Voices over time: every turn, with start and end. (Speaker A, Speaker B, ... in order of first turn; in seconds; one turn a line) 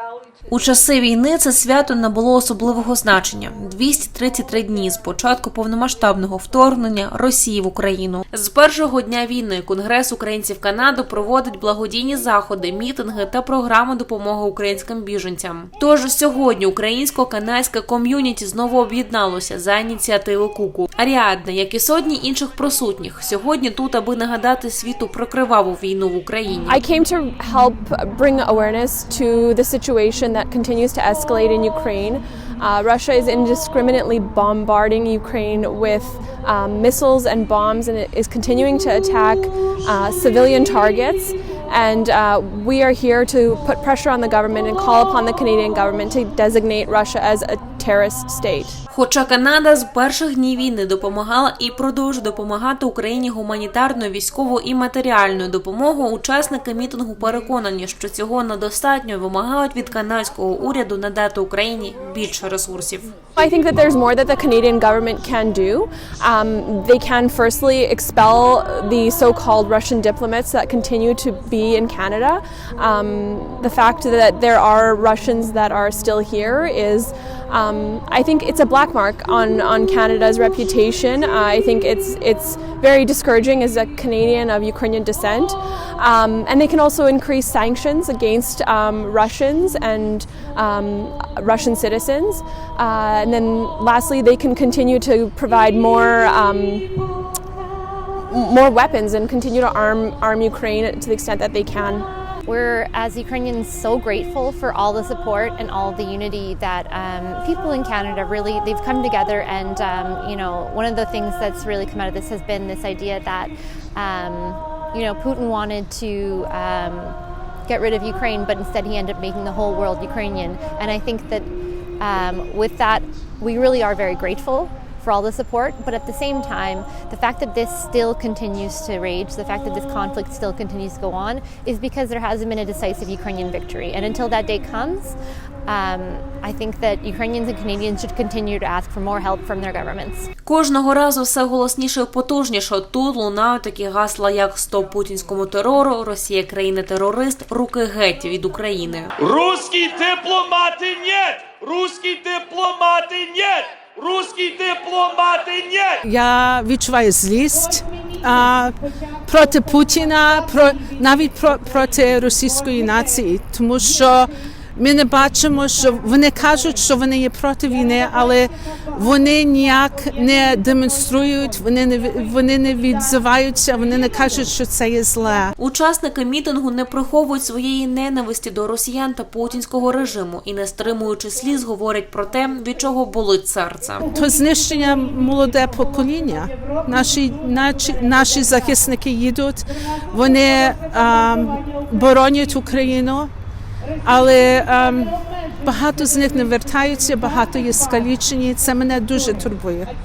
Speaker A: 0.5-26.8
Speaker B: 26.7-48.8
Speaker A: 48.9-63.1
Speaker B: 63.4-96.9
Speaker B: 98.3-102.1
Speaker C: 102.4-117.2
Speaker C: 117.7-121.5
Speaker C: 122.0-135.2
Speaker C: 135.7-140.3
Speaker A: 140.4-149.1
Speaker D: 149.2-156.0
Speaker E: 156.0-175.5
Speaker A: 175.6-184.1
Speaker E: 184.1-193.3
Speaker E: 194.0-199.9